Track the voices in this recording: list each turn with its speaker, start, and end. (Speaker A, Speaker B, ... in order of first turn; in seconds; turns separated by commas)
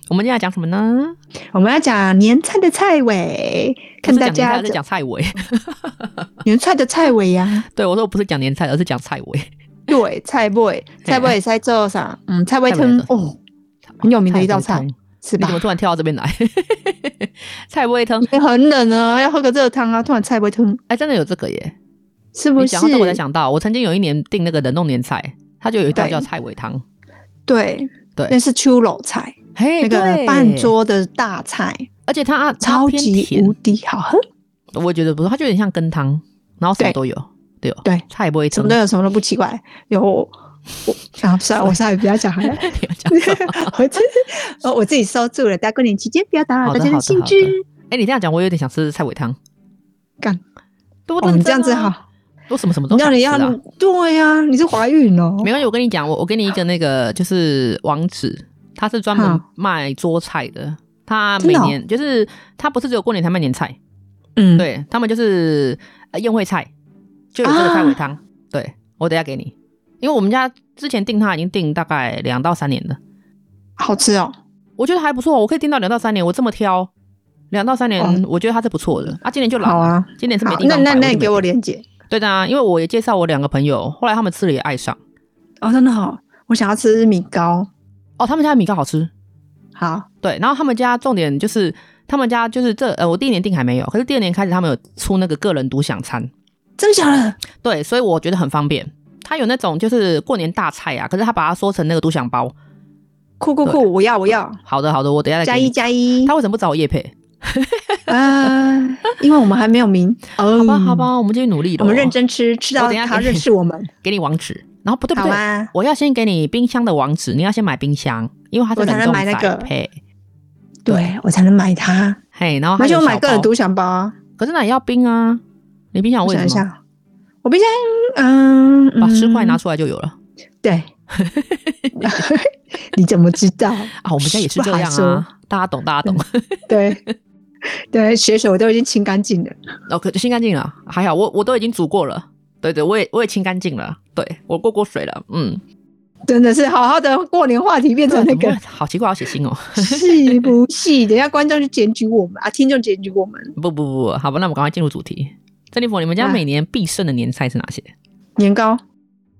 Speaker A: 0.1-1.2, Speaker B: 1.5-4.8, Speaker A: 4.0-6.3, Speaker B: 6.4-7.6, Speaker A: 7.7-9.5, Speaker B: 9.9-13.4, Speaker A: 11.0-11.4, Speaker A: 12.7-13.1, Speaker A: 14.0-18.3, Speaker B: 14.0-15.6, Speaker B: 18.2-20.8, Speaker A: 20.9-21.7, Speaker B: 22.3-23.2, Speaker A: 22.6-26.8, Speaker B: 25.9-26.2, Speaker B: 27.5-31.9, Speaker A: 29.5-30.7, Speaker A: 32.1-33.5, Speaker B: 32.6-34.2, Speaker A: 34.8-38.8, Speaker B: 37.8-40.3, Speaker B: 40.9-47.6, Speaker A: 42.4-43.7, Speaker A: 46.6-49.4, Speaker A: 51.1-51.9, Speaker B: 51.2-52.0, Speaker A: 52.5-53.6, Speaker B: 52.9-55.5, Speaker A: 55.4-63.8, Speaker B: 59.2-59.4, Speaker B: 61.4-61.8, Speaker B: 64.4-64.7, Speaker A: 64.6-66.7, Speaker A: 67.3-73.0, Speaker B: 67.4-68.0, Speaker B: 73.8-74.3, Speaker A: 74.8-76.9, Speaker A: 77.5-81.5, Speaker B: 79.6-81.8, Speaker A: 82.1-85.0, Speaker B: 85.6-87.7, Speaker A: 88.2-89.1, Speaker B: 89.8-90.0, Speaker A: 90.2-96.3, Speaker B: 96.8-97.4, Speaker A: 97.6-102.5, Speaker B: 103.4-104.6, Speaker A: 104.6-105.7, Speaker B: 105.4-106.3, Speaker A: 106.2-108.1, Speaker B: 108.1-111.1, Speaker A: 110.5-112.1, Speaker B: 111.8-113.9, Speaker A: 112.8-113.5, Speaker A: 114.0-120.0, Speaker B: 115.1-115.7, Speaker B: 118.8-119.7, Speaker B: 120.9-122.2, Speaker A: 122.3-123.5, Speaker B: 122.8-124.1, Speaker A: 124.4-125.4, Speaker A: 125.9-126.6, Speaker B: 126.2-126.7, Speaker B: 127.4-129.6, Speaker A: 129.0-130.2, Speaker B: 130.6-130.9, Speaker A: 131.1-132.2, Speaker B: 132.0-135.2, Speaker A: 134.0-137.1, Speaker B: 136.1-137.0, Speaker B: 137.9-139.6, Speaker A: 139.9-145.6, Speaker B: 146.3-148.6, Speaker A: 148.1-150.5, Speaker B: 149.8-153.5, Speaker A: 153.6-157.9, Speaker B: 158.4-158.8